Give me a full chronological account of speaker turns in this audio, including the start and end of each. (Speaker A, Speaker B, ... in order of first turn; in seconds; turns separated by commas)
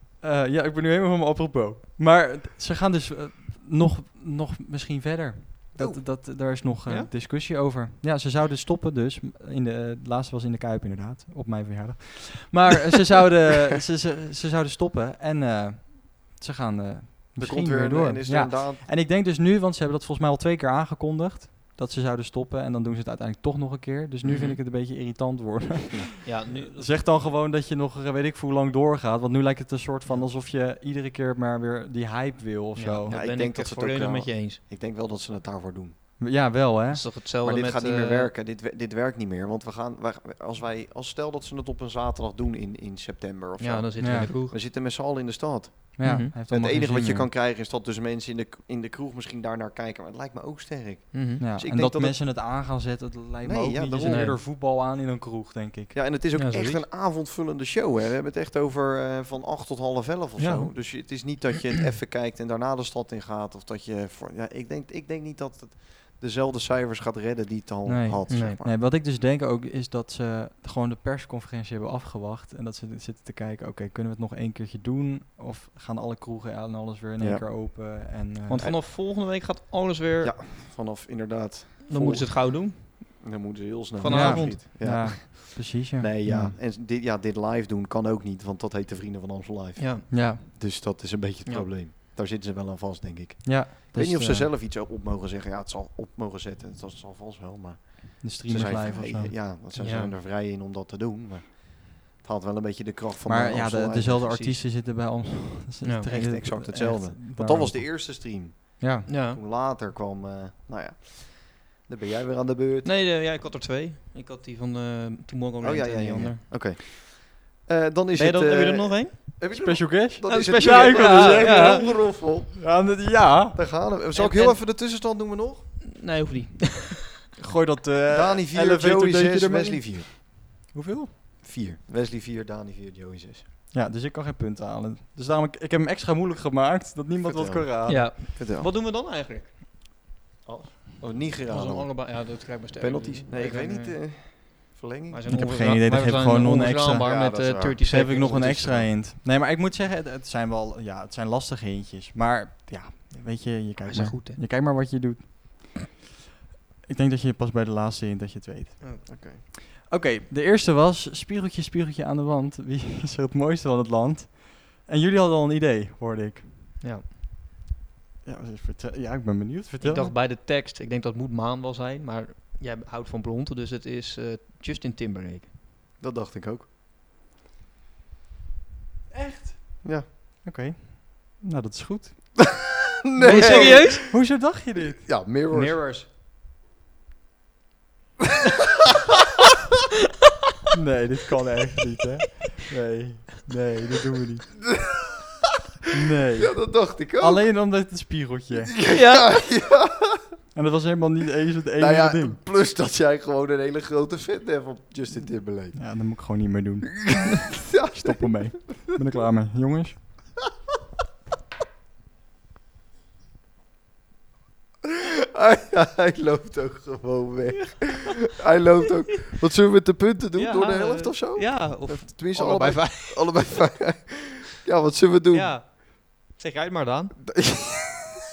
Speaker A: 0.2-33.2, Speaker B: 5.8-6.0, Speaker B: 17.4-18.9, Speaker C: 24.2-24.6, Speaker C: 26.2-27.1, Speaker C: 32.8-34.6, Speaker B: 33.1-36.0, Speaker A: 36.2-37.1, Speaker C: 36.9-38.3, Speaker B: 37.4-52.2, Speaker C: 43.6-44.5, Speaker A: 44.0-44.3, Speaker A: 46.0-47.3, Speaker C: 46.0-46.3, Speaker C: 51.1-51.4, Speaker A: 51.4-56.0, Speaker B: 53.4-54.4, Speaker C: 54.0-54.4, Speaker B: 55.9-68.7, Speaker C: 56.3-56.8, Speaker C: 60.4-61.4, Speaker A: 67.9-78.7, Speaker C: 68.3-68.6, Speaker B: 77.2-77.5, Speaker C: 78.5-80.4, Speaker B: 80.2-104.4, Speaker C: 81.9-82.9, Speaker C: 84.0-84.6, Speaker A: 84.1-86.6, Speaker C: 89.8-90.1, Speaker A: 90.1-90.4, Speaker A: 93.4-94.5, Speaker A: 98.2-99.3, Speaker C: 99.7-100.1, Speaker A: 103.3-108.3, Speaker C: 104.3-104.6, Speaker C: 105.8-106.1, Speaker B: 106.1-112.9, Speaker A: 108.8-109.1, Speaker C: 109.1-109.4, Speaker C: 112.8-116.5, Speaker B: 115.6-123.0, Speaker C: 118.2-119.4, Speaker A: 119.5-123.6, Speaker C: 120.3-121.9, Speaker B: 123.5-125.7, Speaker C: 124.1-124.7, Speaker C: 125.8-127.1, Speaker A: 127.4-131.1, Speaker B: 128.1-130.1, Speaker B: 131.4-133.4, Speaker A: 133.7-138.1, Speaker B: 137.2-138.7, Speaker C: 137.9-139.5, Speaker B: 140.4-145.5, Speaker C: 141.4-144.0, Speaker C: 145.1-148.4, Speaker A: 145.3-155.9, Speaker B: 147.0-148.9, Speaker C: 153.8-154.4, Speaker A: 156.9-166.5, Speaker B: 159.1-159.4, Speaker A: 168.2-170.2, Speaker C: 169.8-175.5, Speaker B: 176.0-176.7, Speaker A: 179.1-179.8, Speaker A: 180.4-182.5, Speaker B: 183.1-185.8, Speaker A: 183.2-185.2, Speaker C: 183.2-184.1, Speaker C: 185.5-186.1, Speaker A: 190.7-194.6, Speaker B: 194.7-195.2, Speaker A: 195.9-198.8, Speaker B: 196.4-197.5, Speaker B: 198.7-200.3, Speaker C: 198.9-199.6, Speaker A: 200.5-202.4, Speaker B: 201.8-205.9, Speaker A: 205.7-207.3, Speaker B: 207.3-208.4, Speaker A: 207.9-210.2, Speaker B: 214.8-225.6, Speaker C: 220.4-223.8, Speaker C: 225.3-227.4, Speaker B: 227.4-228.1